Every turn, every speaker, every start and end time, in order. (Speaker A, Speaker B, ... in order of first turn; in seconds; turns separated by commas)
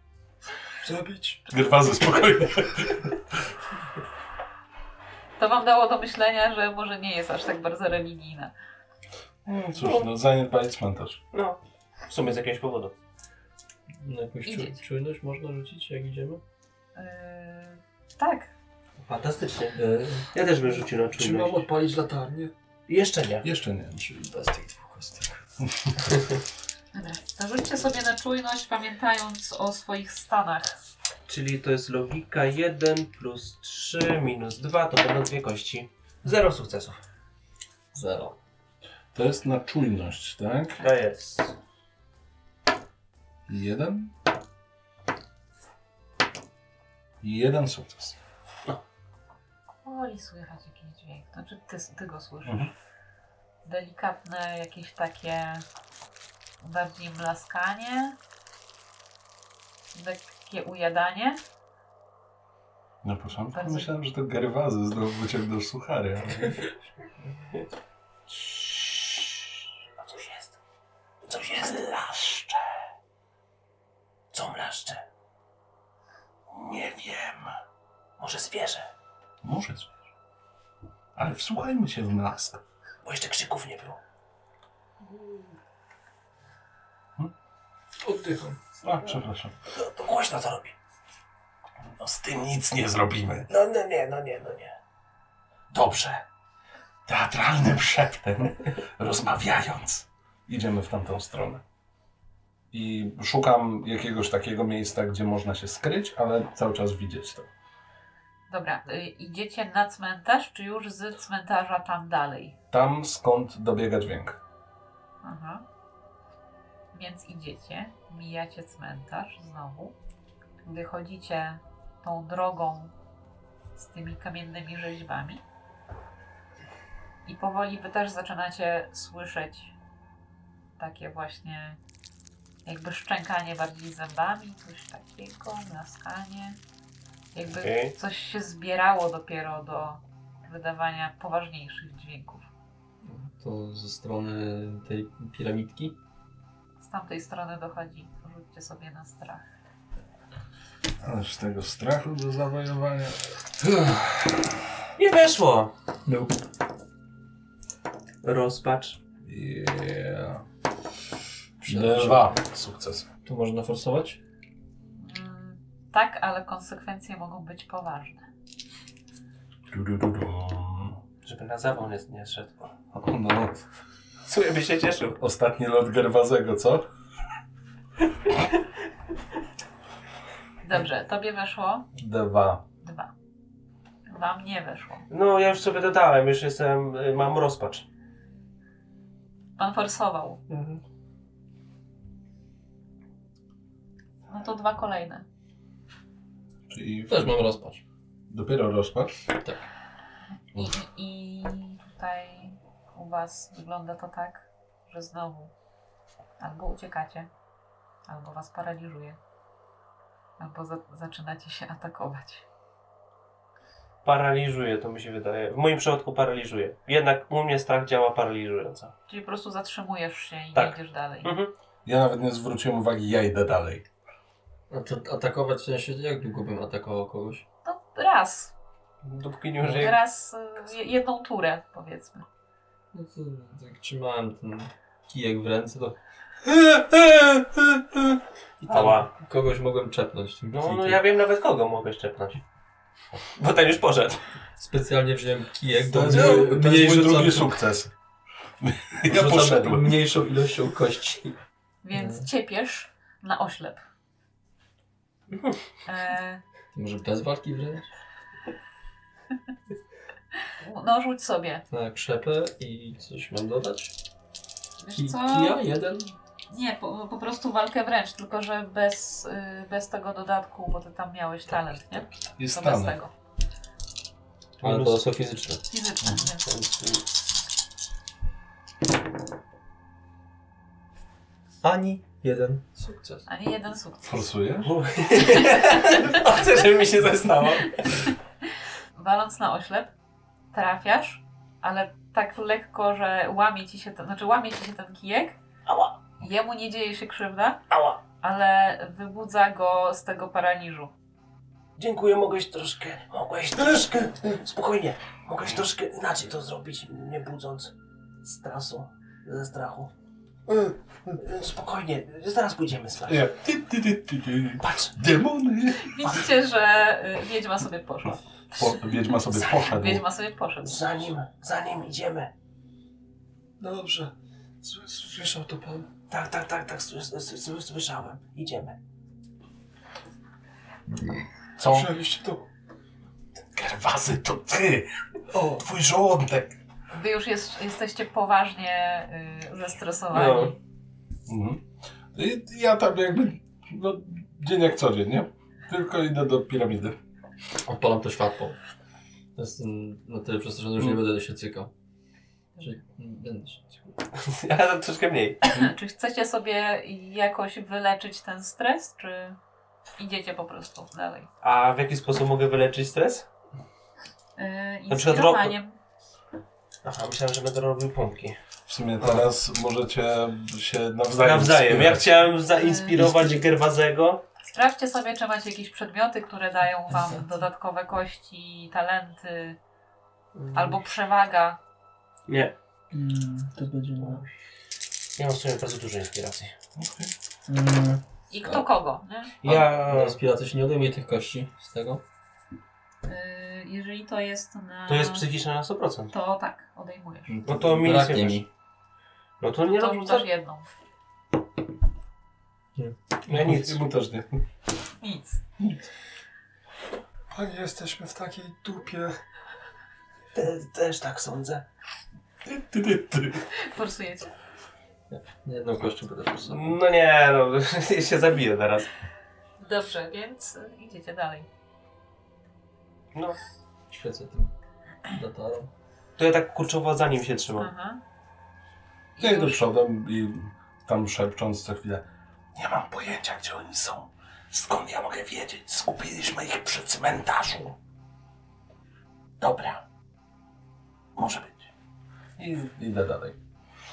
Speaker A: 0.8-1.4, Speaker B: 1.5-3.2, Speaker C: 5.4-8.5, Speaker B: 9.4-11.2, Speaker D: 9.8-10.1, Speaker D: 11.3-12.9, Speaker E: 14.0-16.4, Speaker C: 14.4-14.8, Speaker C: 16.9-18.5, Speaker D: 19.0-19.8, Speaker E: 19.8-20.3, Speaker D: 20.3-21.7, Speaker A: 21.2-22.5, Speaker D: 22.9-23.4, Speaker B: 23.4-24.0, Speaker E: 24.0-25.4, Speaker C: 26.9-30.8, Speaker D: 31.3-37.0, Speaker E: 37.9-38.4, Speaker B: 39.1-40.8, Speaker D: 40.8-41.5, Speaker B: 43.5-44.1, Speaker B: 47.2-48.2, Speaker C: 49.8-52.7, Speaker B: 52.4-52.7, Speaker C: 53.6-55.6, Speaker C: 56.6-58.1, Speaker C: 59.9-61.4, Speaker B: 63.0-66.6, Speaker C: 63.5-63.9, Speaker B: 68.3-69.6, Speaker D: 70.0-70.5, Speaker D: 71.3-71.7, Speaker B: 71.3-72.6, Speaker D: 74.3-75.0, Speaker B: 76.5-77.5, Speaker D: 78.2-78.9, Speaker B: 79.4-79.9, Speaker B: 81.2-82.6, Speaker D: 83.0-84.0, Speaker E: 88.0-88.5, Speaker A: 88.3-88.5, Speaker B: 88.8-89.5, Speaker D: 89.7-90.7, Speaker B: 91.8-93.5, Speaker D: 93.5-94.7, Speaker B: 95.7-96.2, Speaker B: 97.0-101.6, Speaker B: 102.7-107.5, Speaker C: 108.5-112.5, Speaker B: 112.7-114.4, Speaker C: 115.2-115.6, Speaker C: 116.9-119.9, Speaker C: 120.6-122.9, Speaker C: 123.8-125.4, Speaker C: 127.2-129.7, Speaker C: 130.8-131.8, Speaker C: 132.6-136.6, Speaker C: 137.3-142.5, Speaker D: 137.6-137.9, Speaker E: 143.0-145.9, Speaker C: 146.8-149.4, Speaker B: 151.0-154.7, Speaker D: 155.0-155.7, Speaker E: 156.1-156.4, Speaker D: 158.2-159.0, Speaker B: 159.2-160.4, Speaker B: 161.6-163.1, Speaker E: 161.6-162.3, Speaker E: 163.2-164.2, Speaker C: 165.0-168.3, Speaker B: 169.7-171.0, Speaker D: 171.2-172.7, Speaker B: 172.9-173.6, Speaker D: 174.2-175.2, Speaker B: 175.2-176.8, Speaker C: 180.6-181.9, Speaker B: 181.9-182.6, Speaker C: 182.8-183.1, Speaker C: 184.1-185.1, Speaker D: 185.1-187.8, Speaker C: 189.6-190.4, Speaker E: 190.5-190.8, Speaker C: 194.3-195.2, Speaker B: 196.7-197.4, Speaker E: 197.1-197.8, Speaker B: 198.3-199.2, Speaker C: 200.5-205.5, Speaker C: 206.4-207.3, Speaker C: 208.1-209.2, Speaker C: 210.4-212.4, Speaker D: 214.0-218.9, Speaker C: 219.1-221.3, Speaker D: 220.5-221.5, Speaker B: 221.8-223.8, Speaker E: 224.7-227.4, Speaker C: 227.6-228.5, Speaker D: 229.0-230.0, Speaker E: 229.6-229.9, Speaker C: 229.8-232.2, Speaker E: 232.9-236.0, Speaker E: 237.0-237.6, Speaker E: 238.6-241.0, Speaker D: 238.7-239.1, Speaker D: 240.5-242.4, Speaker D: 243.4-244.2, Speaker E: 244.6-247.6, Speaker B: 245.8-247.9, Speaker D: 246.1-246.4, Speaker B: 248.6-250.0, Speaker E: 249.1-251.4, Speaker C: 251.8-253.8, Speaker E: 251.9-252.2, Speaker C: 255.8-256.4, Speaker E: 256.7-257.9, Speaker C: 260.6-261.6, Speaker E: 261.7-263.9, Speaker C: 264.8-265.6, Speaker E: 264.9-266.1, Speaker C: 266.5-273.1, Speaker B: 272.4-273.0, Speaker D: 274.6-275.0, Speaker E: 274.6-275.6, Speaker C: 275.7-276.4, Speaker E: 276.6-276.9, Speaker E: 281.6-283.2, Speaker C: 283.3-284.3, Speaker B: 284.0-284.7, Speaker D: 284.6-287.9, Speaker C: 288.9-289.9, Speaker C: 290.5-295.4, Speaker D: 295.6-295.9, Speaker C: 296.2-297.6, Speaker D: 297.7-298.0, Speaker C: 298.2-300.9, Speaker D: 301.8-307.7, Speaker D: 308.2-309.9, Speaker D: 311.1-313.2, Speaker B: 313.1-316.3, Speaker D: 314.6-314.9, Speaker C: 315.8-321.1, Speaker B: 318.6-320.1, Speaker D: 320.6-322.3, Speaker A: 323.6-324.0, Speaker A: 324.6-325.8, Speaker D: 326.1-328.8, Speaker B: 331.6-332.0, Speaker A: 331.7-332.4, Speaker B: 333.5-336.6, Speaker C: 336.9-340.6, Speaker D: 340.1-340.5, Speaker B: 341.3-341.6, Speaker B: 342.1-347.0, Speaker E: 347.6-348.6, Speaker E: 349.4-351.7, Speaker E: 352.6-353.9, Speaker D: 354.2-355.4, Speaker C: 355.4-359.4, Speaker C: 360.0-361.3, Speaker D: 361.4-363.3, Speaker C: 364.4-365.8, Speaker D: 364.9-365.5, Speaker D: 366.8-368.4, Speaker B: 368.7-372.1, Speaker D: 371.2-374.2, Speaker C: 372.5-373.1, Speaker C: 374.5-379.6, Speaker E: 376.9-377.2, Speaker E: 380.4-380.7, Speaker C: 380.5-381.6, Speaker D: 382.3-382.5, Speaker E: 382.9-384.2, Speaker D: 385.2-386.5, Speaker B: 386.8-387.1, Speaker E: 387.5-388.6, Speaker C: 388.3-389.3, Speaker D: 389.4-390.2, Speaker E: 389.4-392.0, Speaker C: 393.0-395.2, Speaker D: 394.9-396.1, Speaker C: 396.1-397.4, Speaker E: 397.3-398.5, Speaker D: 397.4-398.4, Speaker D: 399.4-400.3, Speaker C: 399.6-400.6, Speaker E: 402.8-403.6, Speaker B: 403.3-404.4, Speaker D: 403.3-403.8, Speaker C: 405.0-405.4, Speaker A: 407.3-409.1, Speaker D: 410.3-411.6, Speaker B: 412.4-413.4, Speaker C: 413.5-414.3, Speaker E: 415.1-416.8, Speaker D: 416.5-418.9, Speaker C: 419.6-421.5, Speaker D: 423.1-423.4, Speaker E: 423.9-424.5, Speaker E: 425.1-425.7, Speaker D: 426.2-427.7, Speaker C: 427.6-428.0, Speaker C: 429.1-429.6, Speaker B: 429.2-437.8, Speaker B: 439.4-439.8, Speaker B: 441.1-441.7, Speaker B: 442.4-443.4